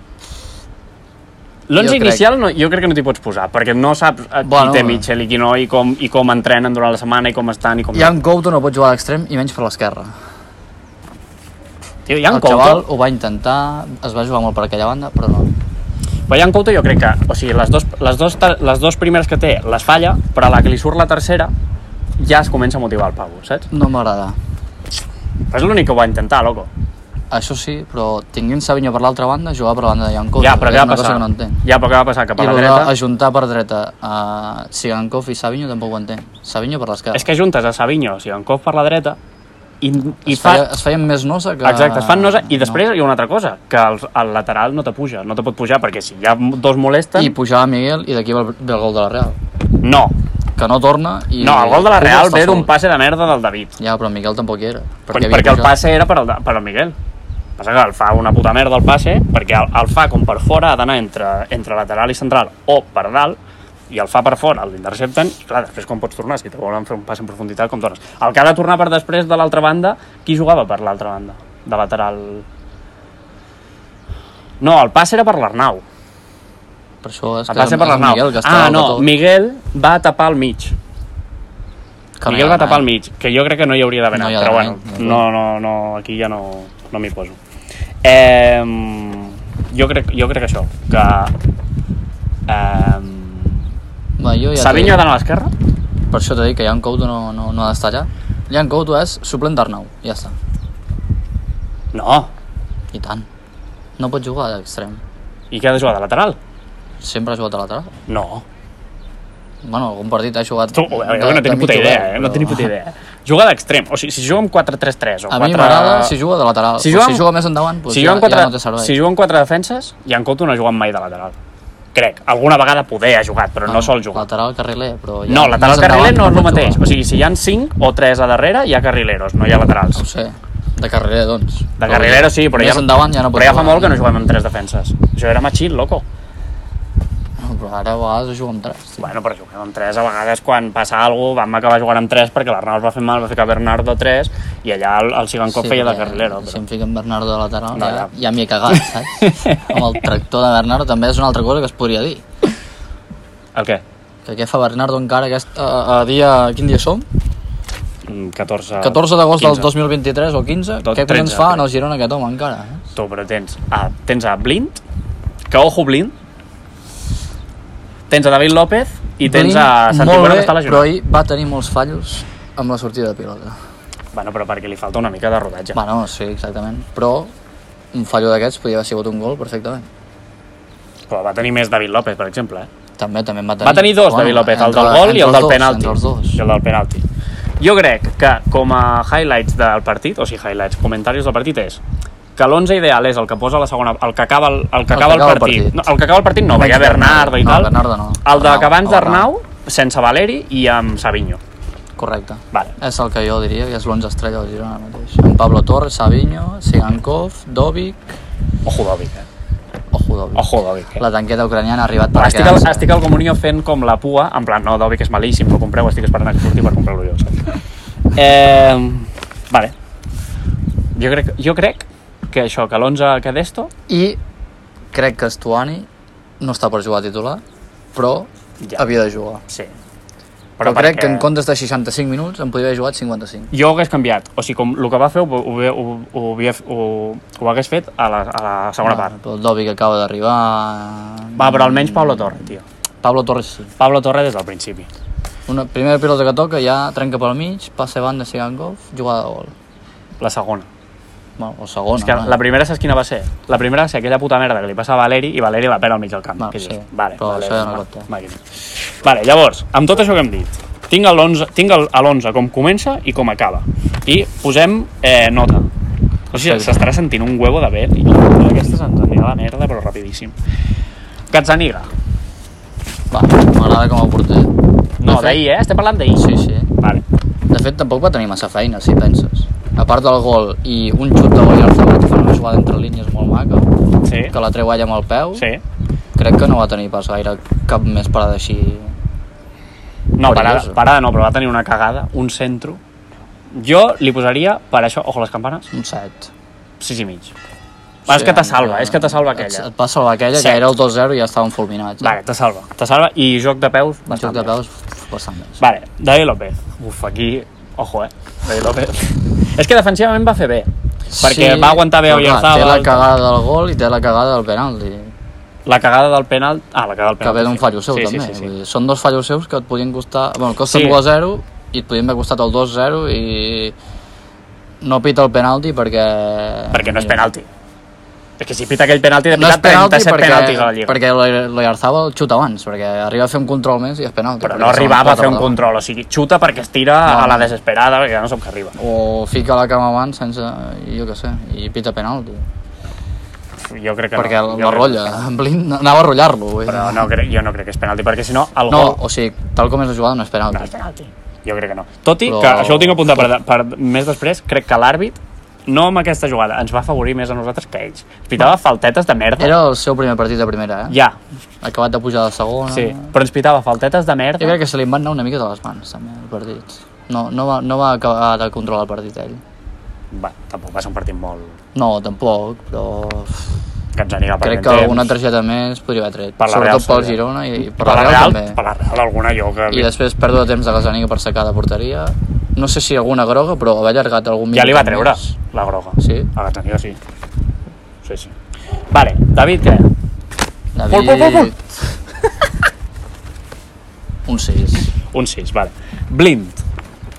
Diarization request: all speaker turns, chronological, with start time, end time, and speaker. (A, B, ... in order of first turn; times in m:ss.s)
0:01.7-0:08.2 A
0:01.8-0:02.3 B
0:04.4-0:05.1 B
0:07.9-0:10.1 B
0:12.1-0:12.9 A
0:12.3-0:15.5 B
0:16.3-0:21.5 A
0:22.2-0:23.7 A
0:23.7-0:24.4 B
0:25.5-0:26.7 A
0:27.3-0:31.6 B
0:30.4-0:32.9 A
0:32.4-0:37.3 B
0:37.1-0:39.2 A
0:39.8-0:40.7 A
0:40.2-0:42.8 B
0:41.6-0:47.3 A
0:47.2-0:49.4 B
0:49.8-0:50.1 A
0:50.6-0:52.7 B
0:51.4-0:53.8 A
0:53.8-0:55.8 B
0:55.1-0:57.0 A
0:57.6-1:03.4 A
1:03.9-1:12.5 A
1:14.6-1:15.8 A
1:17.0-1:19.1 B
1:17.5-1:20.8 A
1:22.2-1:22.9 B
1:22.3-1:27.4 A
1:24.1-1:25.2 B
1:28.0-1:31.3 A
1:32.5-1:33.6 A
1:34.2-1:35.0 B
1:34.6-1:35.5 A
1:36.1-1:40.4 B
1:41.9-1:42.3 A
1:42.9-1:43.3 B
1:44.0-1:45.0 B
1:45.5-1:46.4 A
1:47.0-1:47.9 B
1:48.1-1:48.4 A
1:49.6-1:52.7 B
1:50.7-1:56.2 A
1:55.3-1:58.9 B
1:56.8-1:57.3 A
1:57.9-2:01.4 A
2:01.9-2:04.3 A
2:03.7-2:06.8 B
2:05.3-2:10.0 A
2:10.0-2:14.0 B
2:11.8-2:16.0 A
2:17.4-2:19.1 B
2:19.0-2:26.6 A
2:25.5-2:32.2 B
2:27.8-2:28.1 A
2:28.7-2:30.0 A
2:33.6-2:33.8 A
2:34.2-2:37.1 B
2:38.0-2:39.7 A
2:38.8-2:42.8 B
2:40.8-2:41.6 A
2:43.0-2:44.8 A
2:45.5-2:46.1 A
2:48.1-2:50.9 A
2:49.2-2:53.6 B
2:54.1-2:55.8 A
2:55.8-2:57.3 B
2:57.9-2:59.9 B
3:01.1-3:02.7 A
3:03.0-3:06.4 B
3:03.6-3:07.0 A
3:07.6-3:11.8 A
3:12.4-3:17.7 A
3:14.9-3:15.9 B
3:16.6-3:19.3 B
3:18.2-3:21.4 A
3:22.0-3:28.2 B
3:28.6-3:29.3 A
3:29.9-3:32.9 B
3:30.4-3:31.0 A
3:32.2-3:37.5 A
3:38.1-3:39.7 A
3:41.0-3:43.7 A
3:43.9-3:44.2 B
3:44.9-3:45.9 B
3:46.4-3:47.4 B
3:47.9-3:49.4 B
3:48.6-3:48.9 A
3:50.6-3:51.3 A
3:50.6-3:53.5 B
3:53.5-3:59.1 A
3:58.8-4:02.5 B
4:01.4-4:02.6 A
4:03.0-4:03.7 B
4:03.8-4:04.9 A
4:05.5-4:09.5 B
4:10.2-4:10.7 A
4:11.4-4:12.4 B
4:12.0-4:25.7 A
4:16.4-4:18.1 B
4:26.3-4:30.4 A
4:26.3-4:26.9 B
4:31.3-4:31.9 A
4:33.1-4:34.5 B
4:35.0-4:37.0 A
4:35.1-4:35.4 B
4:36.2-4:36.7 B
4:37.5-4:43.7 B
4:44.0-4:44.4 A
4:44.3-4:45.5 B
4:46.2-4:49.0 B
4:50.2-4:52.8 A
4:50.2-4:50.8 B
4:53.5-4:55.7 A
4:55.7-4:56.3 B
4:56.8-4:57.3 A
4:58.1-4:59.7 A
4:58.1-5:02.2 B
5:00.4-5:00.6 A
5:02.0-5:04.5 A
5:04.1-5:05.6 B
5:05.6-5:10.7 A
5:11.1-5:15.1 B
5:11.2-5:13.1 A
5:15.7-5:18.5 A
5:17.2-5:23.8 B
5:20.7-5:21.0 A
5:24.8-5:27.3 B
5:26.7-5:27.5 A
5:28.4-5:31.0 A
5:29.3-5:35.6 B
5:34.4-5:38.8 A
5:37.0-5:37.5 B
5:38.8-5:42.5 B
5:43.7-5:45.2 A
5:44.2-5:47.1 B
5:46.7-5:49.0 A
5:48.7-5:50.7 B
5:50.5-5:59.6 A
5:52.2-5:53.3 B
5:59.4-6:01.0 B
6:00.9-6:01.2 A
6:01.6-6:03.1 B
6:02.7-6:04.6 A
6:04.4-6:09.4 B
6:10.1-6:11.6 A
6:11.7-6:13.6 B
6:14.0-6:15.1 A
6:14.4-6:18.6 B
6:16.4-6:19.9 A
6:19.7-6:25.3 B
6:24.5-6:27.0 A
6:26.0-6:26.3 B
6:28.0-6:28.3 A
6:28.9-6:29.9 A
6:30.8-6:31.8 B
6:30.9-6:31.5 A
6:34.3-6:34.9 B
6:35.1-6:36.6 A